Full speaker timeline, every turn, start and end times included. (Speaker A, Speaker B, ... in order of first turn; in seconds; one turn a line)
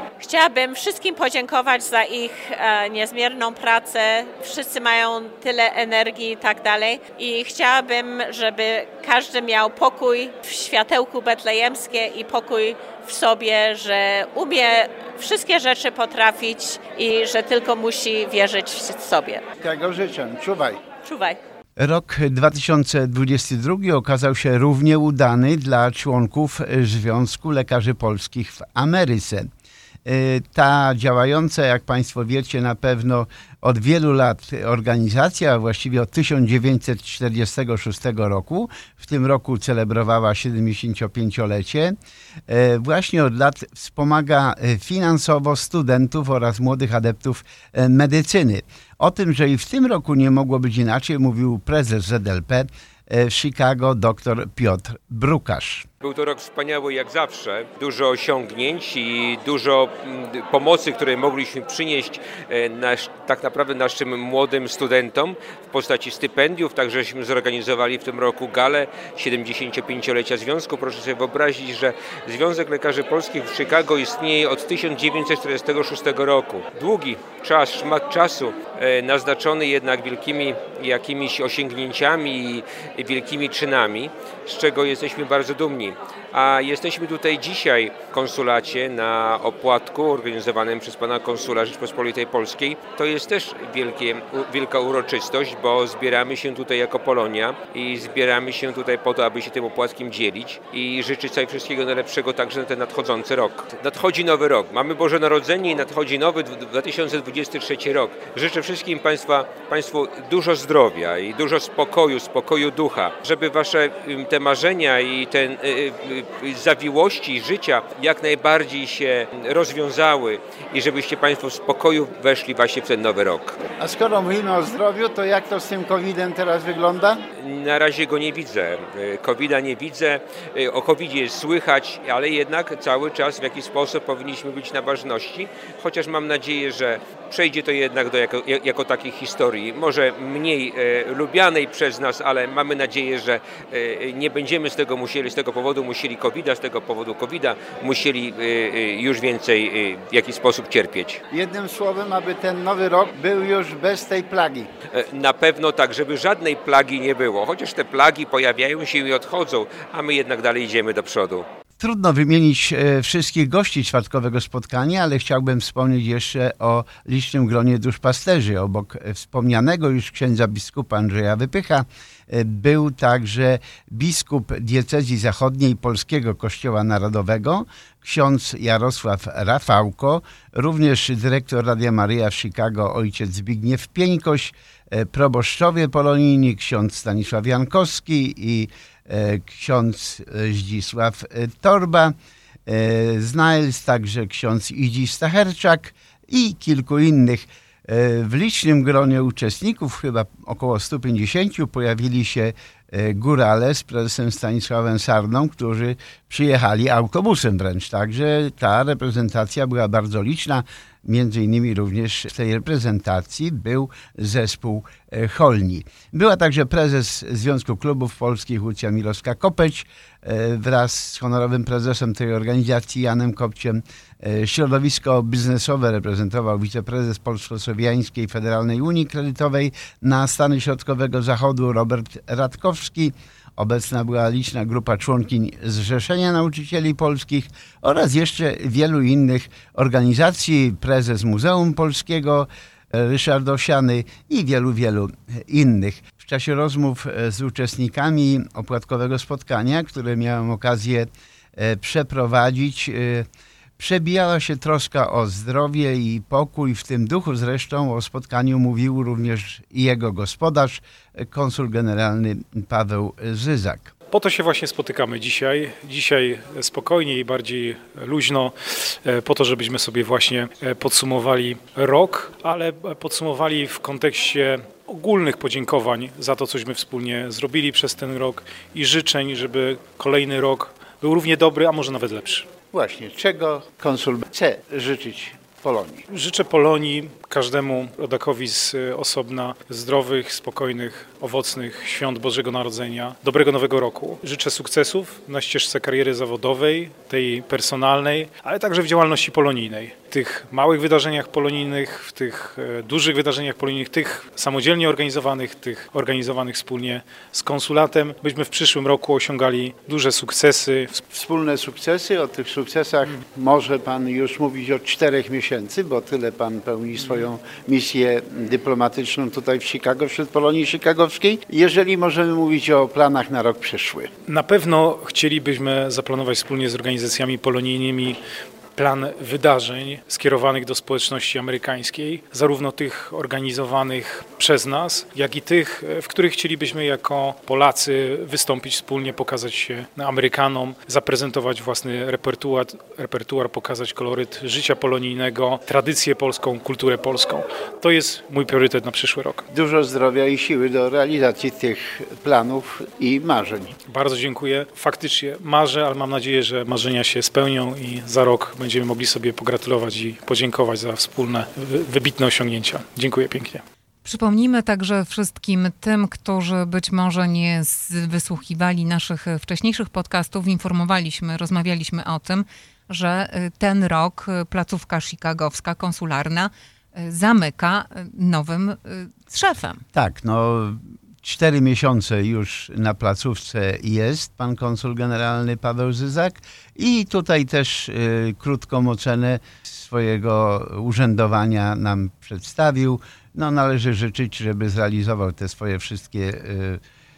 Speaker A: 0.2-19.4
Speaker B: 19.6-20.8
Speaker A: 21.0-21.4
Speaker B: 21.8-29.5
Speaker B: 30.1-41.9
Speaker B: 42.5-55.9
Speaker C: 56.0-123.5
Speaker B: 123.8-127.2
Speaker C: 127.4-151.2
Speaker B: 151.3-154.7
Speaker C: 154.9-161.4
Speaker B: 161.8-192.1
Speaker B: 192.7-253.3
Speaker B: 253.8-263.9
Speaker D: 264.1-282.5
Speaker B: 282.7-286.0
Speaker D: 286.1-311.0
Speaker B: 311.1-324.1
Speaker D: 324.3-328.2
Speaker D: 328.8-349.4
Speaker B: 349.5-353.7
Speaker D: 353.9-363.6
Speaker E: 364.0-379.8
Speaker B: 379.9-396.8